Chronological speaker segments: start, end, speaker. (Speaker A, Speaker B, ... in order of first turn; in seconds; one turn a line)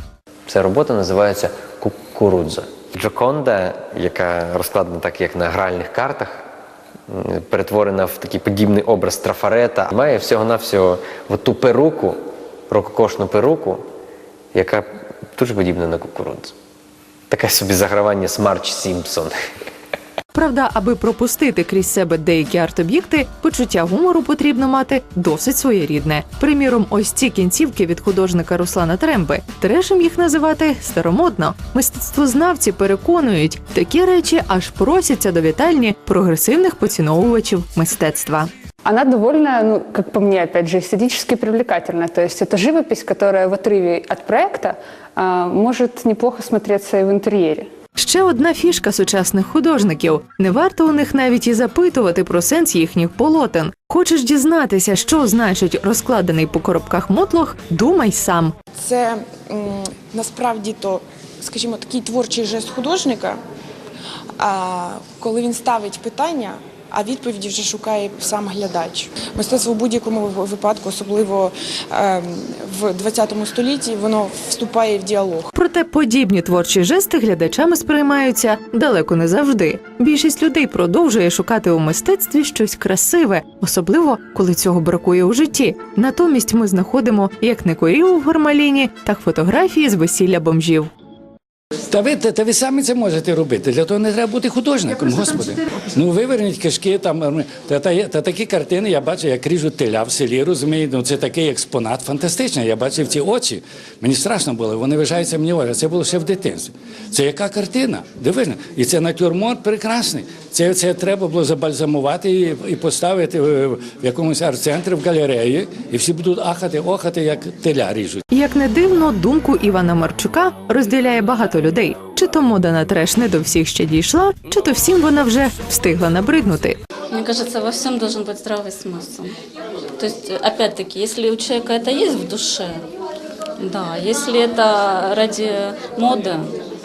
Speaker A: 0.5-6.5
Speaker A: 7.1-13.8
Speaker A: 14.5-16.5
Speaker A: 17.3-19.3
Speaker B: 20.3-38.5
Speaker C: 38.9-47.7
Speaker B: 48.0-58.5
Speaker D: 58.8-63.4
Speaker D: 64.4-75.5
Speaker B: 75.5-90.9
Speaker E: 91.9-118.2
Speaker B: 118.3-126.8
Speaker F: 127.1-129.3
Speaker F: 130.0-132.8
Speaker F: 133.6-136.5